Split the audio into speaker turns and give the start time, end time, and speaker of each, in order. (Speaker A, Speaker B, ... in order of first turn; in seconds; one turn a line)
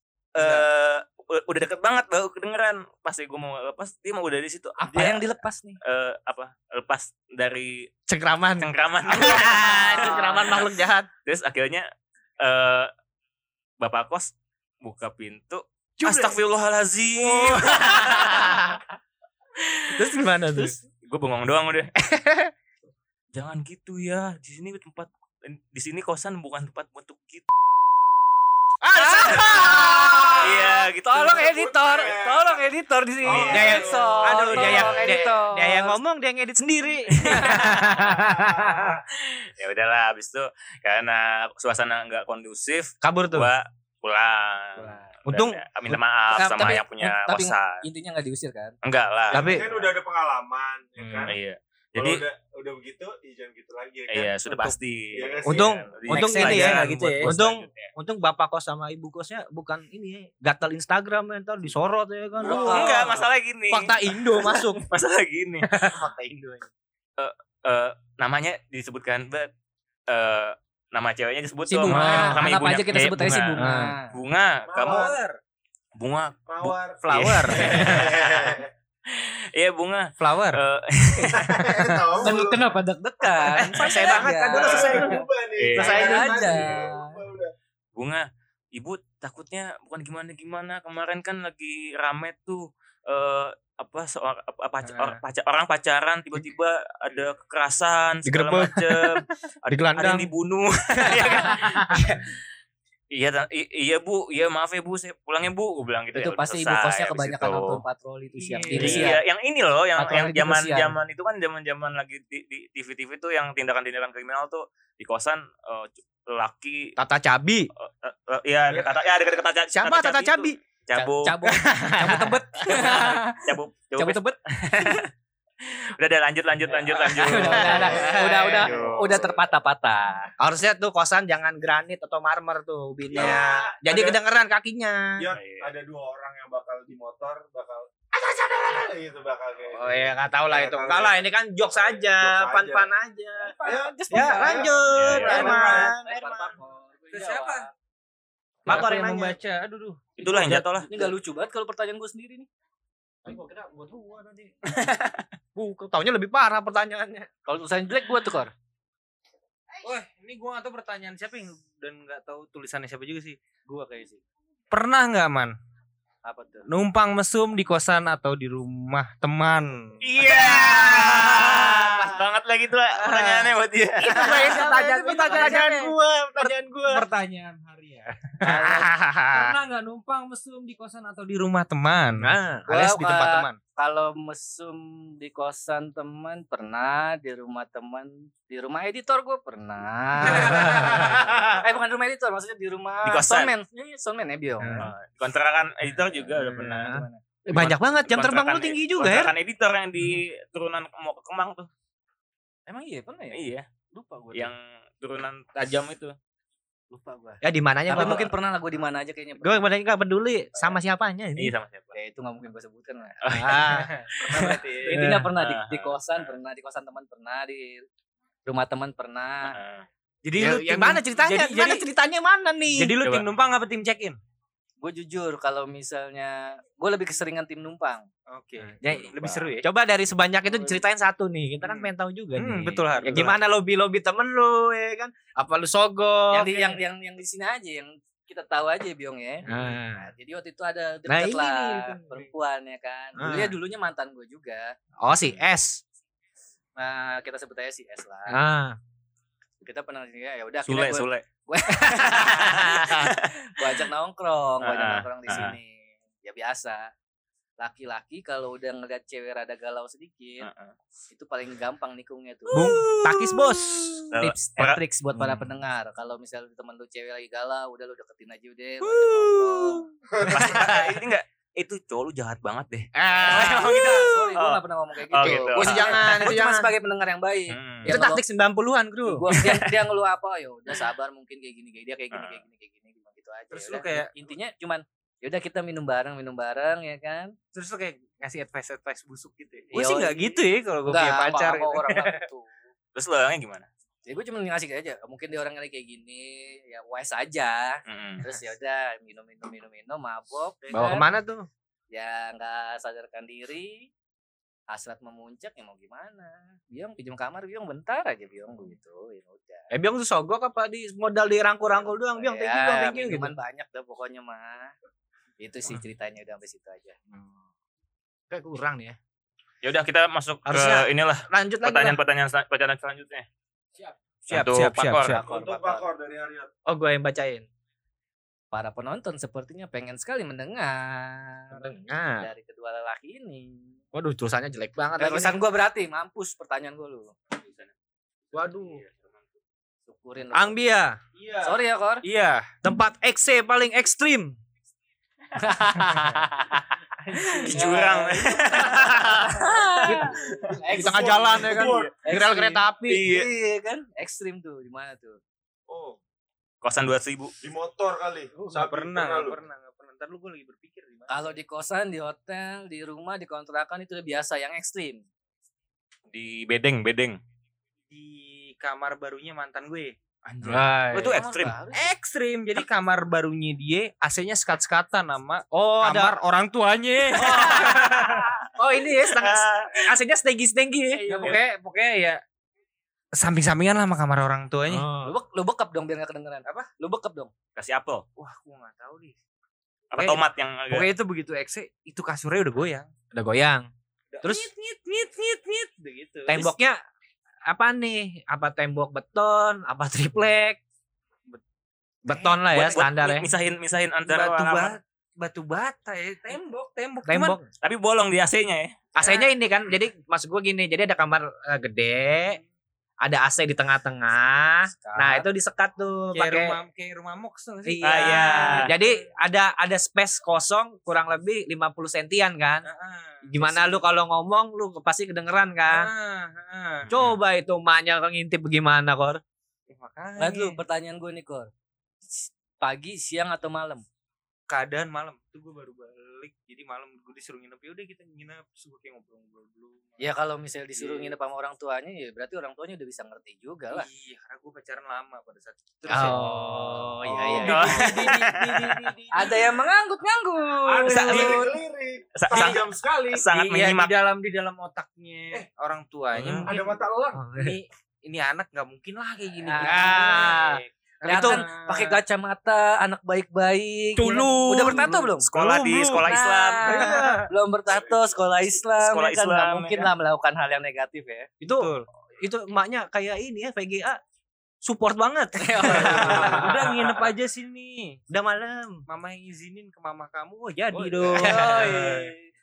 Speaker A: 0.3-5.3
Speaker B: 0.4-0.7
Speaker C: 4.8-5.8
Speaker A: 5.8-7.9
Speaker D: 8.1-11.1
Speaker A: 8.6-10.7
Speaker C: 9.8-10.4
Speaker A: 11.3-11.9
Speaker A: 12.4-12.9
Speaker A: 13.8-18.7
Speaker D: 16.0-16.4
Speaker D: 17.2-18.8
Speaker D: 19.9-20.8
Speaker A: 21.0-21.9
Speaker D: 22.0-22.5
Speaker A: 23.3-27.5
Speaker D: 28.8-30.8
Speaker C: 29.0-30.4
Speaker A: 29.1-31.5
Speaker E: 30.0-30.4
Speaker C: 31.0-36.0
Speaker E: 31.4-32.7
Speaker E: 33.2-35.1
Speaker A: 33.3-33.7
Speaker D: 33.5-38.9
Speaker A: 37.3-37.6
Speaker C: 37.3-37.9
Speaker E: 37.9-39.0
Speaker A: 39.1-47.8
Speaker D: 43.0-43.5
Speaker C: 44.8-45.0
Speaker D: 45.3-46.0
Speaker C: 46.3-48.8
Speaker A: 48.8-49.6
Speaker D: 49.3-49.8
Speaker E: 49.3-51.4
Speaker D: 51.0-51.3
Speaker A: 51.3-52.2
Speaker E: 52.0-56.1
Speaker A: 54.1-57.9
Speaker D: 55.4-63.2
Speaker B: 56.1-57.4
Speaker C: 62.4-63.2
Speaker A: 62.5-65.7
Speaker D: 63.7-64.9
Speaker D: 65.7-66.7
Speaker A: 67.2-69.5
Speaker A: 70.1-75.1
Speaker C: 71.7-74.1
Speaker B: 71.9-72.4
Speaker B: 73.6-74.0
Speaker E: 74.7-75.2
Speaker B: 74.8-75.4
Speaker A: 76.0-76.5
Speaker E: 76.5-78.7
Speaker D: 77.0-77.9
Speaker A: 77.1-81.7
Speaker B: 77.2-77.8
Speaker B: 80.2-80.6
Speaker E: 81.1-82.6
Speaker B: 81.7-82.1
Speaker C: 82.2-85.2
Speaker D: 83.5-86.5
Speaker B: 83.8-85.0
Speaker E: 84.5-87.5
Speaker A: 85.6-86.2
Speaker C: 85.8-87.2
Speaker A: 88.0-102.4
Speaker B: 94.8-95.2
Speaker D: 98.3-100.3
Speaker D: 101.0-102.0
Speaker A: 103.1-107.8
Speaker C: 106.1-109.2
Speaker B: 108.4-109.1
Speaker A: 108.7-117.0
Speaker D: 108.8-109.1
Speaker C: 110.0-111.0
Speaker D: 117.0-117.7
Speaker A: 117.8-121.4
Speaker D: 119.7-120.6
Speaker C: 120.9-123.4
Speaker D: 121.5-122.4
Speaker B: 122.0-122.8
Speaker A: 122.7-125.1
Speaker C: 124.0-125.0
Speaker A: 125.7-129.3
Speaker C: 127.0-130.3
Speaker D: 127.2-128.9
Speaker D: 130.4-135.3
Speaker E: 133.1-134.2
Speaker E: 135.2-142.9
Speaker A: 135.3-135.7
Speaker D: 139.7-143.6
Speaker C: 143.4-147.7
Speaker E: 143.6-145.9
Speaker D: 144.1-146.5
Speaker A: 144.9-145.6
Speaker B: 145.2-145.9
Speaker B: 147.1-147.7
Speaker D: 148.7-149.4
Speaker B: 148.7-150.7
Speaker A: 150.2-150.9
Speaker C: 150.9-152.5
Speaker D: 153.2-154.5
Speaker A: 154.7-155.3
Speaker D: 155.6-157.3
Speaker C: 157.5-158.5
Speaker B: 159.8-163.4
Speaker C: 163.7-164.2
Speaker B: 164.7-165.6
Speaker C: 166.2-166.7
Speaker B: 166.7-170.2
Speaker A: 170.0-174.7
Speaker D: 170.2-172.2
Speaker D: 173.0-177.1
Speaker B: 174.1-183.6
Speaker D: 178.4-179.6
Speaker C: 178.4-178.9
Speaker D: 182.2-182.8
Speaker C: 182.7-194.8
Speaker D: 190.2-191.5
Speaker A: 193.0-193.5
Speaker D: 194.6-194.9
Speaker A: 194.8-201.7
Speaker C: 196.0-197.2
Speaker D: 196.7-199.3
Speaker C: 202.7-203.4
Speaker A: 203.3-203.7
Speaker C: 203.9-204.5
Speaker A: 204.3-206.2
Speaker C: 206.9-209.7
Speaker D: 207.4-208.3
Speaker D: 209.4-211.5
Speaker A: 211.4-211.9
Speaker C: 211.9-213.5
Speaker A: 213.2-213.8
Speaker D: 213.3-213.9
Speaker B: 213.7-215.2
Speaker C: 214.2-217.8
Speaker D: 214.9-215.3
Speaker A: 215.4-216.3
Speaker C: 218.5-219.6
Speaker A: 219.4-219.9
Speaker B: 220.3-221.8
Speaker D: 220.3-223.0
Speaker B: 222.7-224.2
Speaker C: 224.8-228.1
Speaker B: 228.3-229.7
Speaker D: 228.8-236.8
Speaker B: 231.6-233.4
Speaker C: 236.3-244.8
Speaker D: 239.5-240.1
Speaker D: 241.1-242.2
Speaker D: 243.2-243.6
Speaker D: 245.0-245.8
Speaker C: 246.8-248.4
Speaker D: 248.3-248.8
Speaker C: 249.6-256.9
Speaker A: 250.7-251.3
Speaker A: 252.0-253.3
Speaker D: 252.4-253.1
Speaker A: 254.6-255.6
Speaker C: 257.6-260.5
Speaker A: 260.4-260.7
Speaker C: 261.1-262.8
Speaker B: 262.5-263.4
Speaker D: 262.5-264.1
Speaker A: 264.1-264.8
Speaker C: 264.1-269.9
Speaker D: 268.9-270.9
Speaker E: 270.2-270.5
Speaker A: 270.2-276.3
Speaker D: 272.9-274.1
Speaker C: 273.1-278.2
Speaker D: 275.2-276.7
Speaker A: 277.5-277.9
Speaker D: 277.9-279.5
Speaker C: 279.1-287.4
Speaker A: 282.1-282.4
Speaker B: 283.5-284.1
Speaker B: 287.5-292.2
Speaker C: 289.7-292.5
Speaker A: 292.9-293.7
Speaker C: 294.1-301.1
Speaker A: 297.9-298.3
Speaker B: 300.6-301.1
Speaker D: 300.7-301.5
Speaker C: 301.9-303.9
Speaker C: 304.7-309.7
Speaker D: 309.7-313.3
Speaker C: 312.1-314.7
Speaker C: 315.4-317.0
Speaker D: 318.3-319.0
Speaker A: 319.6-323.3
Speaker D: 320.5-322.0
Speaker B: 324.3-325.2
Speaker A: 324.3-325.2
Speaker C: 325.0-325.9
Speaker E: 325.2-326.5
Speaker D: 326.7-327.5
Speaker C: 328.5-333.8
Speaker D: 331.5-332.3
Speaker D: 333.9-335.4
Speaker C: 335.0-337.1
Speaker A: 337.4-337.7
Speaker D: 338.3-338.8
Speaker A: 338.6-339.1
Speaker C: 339.9-340.6
Speaker D: 340.3-341.0
Speaker B: 341.2-342.5
Speaker C: 341.4-342.1
Speaker D: 342.6-344.4
Speaker C: 345.4-355.2
Speaker A: 347.4-350.5
Speaker D: 348.7-349.3
Speaker D: 349.9-350.1
Speaker D: 350.7-353.1
Speaker E: 350.7-351.9
Speaker A: 351.6-351.9
Speaker A: 352.9-353.3
Speaker B: 355.7-356.0
Speaker A: 356.6-357.3
Speaker E: 357.4-359.4
Speaker B: 358.4-361.3
Speaker C: 361.1-365.1
Speaker A: 366.1-367.2
Speaker B: 367.9-370.7
Speaker A: 370.3-371.6
Speaker D: 370.4-371.2
Speaker C: 371.1-371.9
Speaker B: 371.7-378.4
Speaker D: 375.5-376.1
Speaker D: 377.1-381.3
Speaker A: 377.4-377.7
Speaker A: 379.0-379.8
Speaker C: 380.9-381.4
Speaker B: 381.1-382.2
Speaker B: 383.1-384.9
Speaker D: 384.7-385.1
Speaker C: 385.0-387.3
Speaker A: 387.6-388.1
Speaker B: 388.2-389.1
Speaker A: 389.9-390.9
Speaker B: 389.9-392.9
Speaker D: 393.1-393.7
Speaker B: 394.1-396.5
Speaker D: 394.2-394.5
Speaker D: 396.3-396.8
Speaker D: 397.5-400.6
Speaker D: 402.1-403.3
Speaker A: 402.5-404.8
Speaker B: 404.1-407.4
Speaker D: 407.1-407.4
Speaker A: 407.6-408.8
Speaker D: 408.9-412.4
Speaker C: 409.0-409.3
Speaker D: 413.0-416.6
Speaker C: 414.8-415.3
Speaker B: 416.1-418.9
Speaker D: 417.6-422.7
Speaker A: 417.8-418.7
Speaker B: 422.6-423.8
Speaker D: 423.3-425.9
Speaker B: 425.7-426.9
Speaker A: 426.9-427.1
Speaker D: 426.9-429.2
Speaker B: 429.7-430.6
Speaker C: 430.2-431.5
Speaker C: 432.1-433.9
Speaker B: 434.5-440.1
Speaker C: 440.0-443.9
Speaker B: 440.8-441.1
Speaker B: 443.7-449.6
Speaker D: 445.9-447.5
Speaker C: 445.9-447.9
Speaker E: 447.4-448.0
Speaker A: 447.5-448.9
Speaker C: 449.1-451.6
Speaker E: 450.6-453.3
Speaker A: 450.9-451.5
Speaker A: 452.1-453.9
Speaker B: 453.3-456.6
Speaker E: 456.4-457.2
Speaker D: 457.1-457.6
Speaker B: 457.3-460.5
Speaker C: 459.5-465.3
Speaker D: 459.6-461.4
Speaker B: 461.1-462.0
Speaker D: 464.0-466.1
Speaker B: 464.2-464.9
Speaker A: 465.2-467.0
Speaker C: 466.2-471.3
Speaker D: 466.6-467.3
Speaker B: 466.6-467.3
Speaker A: 468.8-469.9
Speaker D: 471.4-474.0
Speaker B: 471.6-471.9
Speaker D: 474.6-476.6
Speaker C: 475.4-476.5
Speaker B: 475.8-478.0
Speaker E: 475.9-476.9
Speaker D: 478.1-478.8
Speaker B: 478.9-482.0
Speaker D: 480.8-481.8
Speaker C: 481.1-482.1